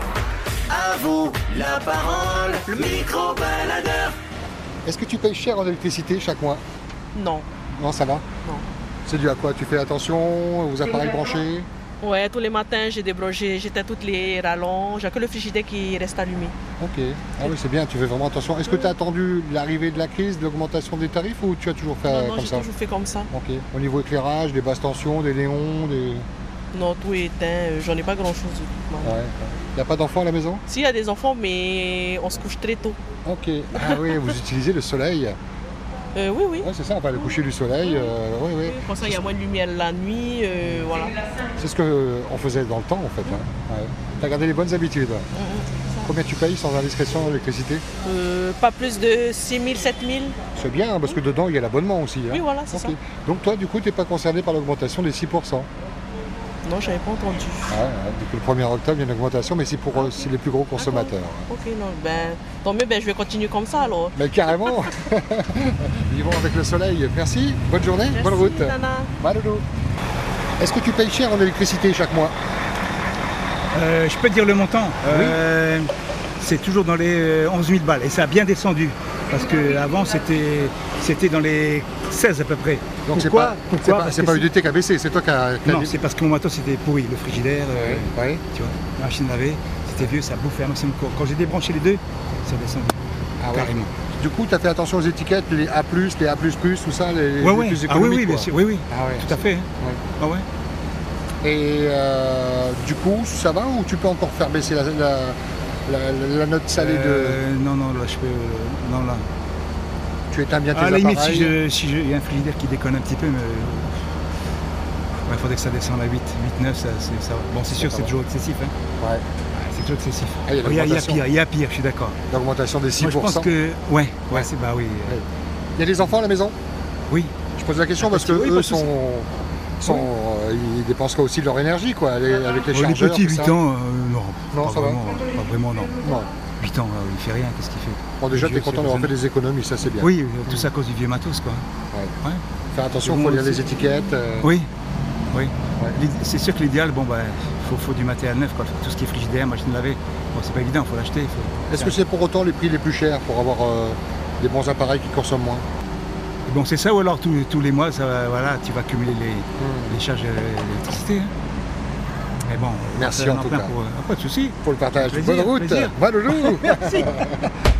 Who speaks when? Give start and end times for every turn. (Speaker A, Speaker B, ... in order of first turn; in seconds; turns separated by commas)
Speaker A: 0.7-4.2, Speaker B: 4.8-6.6, Speaker C: 7.1-7.5, Speaker B: 7.7-8.2, Speaker B: 9.1-11.7, Speaker C: 12.0-16.6, Speaker B: 16.8-22.7, Speaker C: 22.1-23.3, Speaker B: 23.3-26.2, Speaker C: 26.7-29.1, Speaker B: 29.0-30.6, Speaker C: 30.7-33.0, Speaker B: 33.2-35.4, Speaker C: 36.1-36.7, Speaker B: 36.6-39.2, Speaker C: 38.6-41.2, Speaker B: 41.6-45.3, Speaker C: 45.3-46.1, Speaker B: 46.0-47.8, Speaker C: 48.0-50.4, Speaker B: 50.6-55.7, Speaker C: 52.3-53.0, Speaker C: 56.6-57.8, Speaker B: 57.7-61.5, Speaker C: 60.0-64.2, Speaker B: 64.2-69.7, Speaker C: 68.1-69.1, Speaker B: 70.6-72.3, Speaker D: 73.7-75.9, Speaker B: 75.1-75.4, Speaker D: 76.4-84.5, Speaker B: 83.1-86.0, Speaker D: 85.7-93.9, Speaker B: 87.7-88.4, Speaker B: 93.4-100.0, Speaker D: 97.4-100.5, Speaker B: 101.4-107.4, Speaker D: 106.8-109.3, Speaker B: 110.3-111.6, Speaker D: 110.7-114.1, Speaker D: 115.3-118.8, Speaker B: 117.7-118.1, Speaker B: 119.0-119.2, Speaker D: 119.5-122.2, Speaker B: 120.5-121.2, Speaker B: 122.3-123.5, Speaker D: 123.0-125.2, Speaker B: 125.8-126.6, Speaker B: 127.6-133.6, Speaker D: 128.0-128.9, Speaker D: 129.8-130.1, Speaker D: 132.7-136.0, Speaker B: 134.5-135.0, Speaker B: 136.0-136.3, Speaker D: 136.6-139.1, Speaker B: 138.2-140.7, Speaker D: 140.0-141.7, Speaker B: 141.9-142.2, Speaker B: 142.7-144.5, Speaker D: 143.0-143.6, Speaker D: 144.4-144.7, Speaker D: 145.3-152.0, Speaker B: 151.7-155.7, Speaker D: 156.5-161.3, Speaker B: 159.6-160.0, Speaker D: 162.5-167.2, Speaker B: 163.0-163.7, Speaker B: 164.6-167.5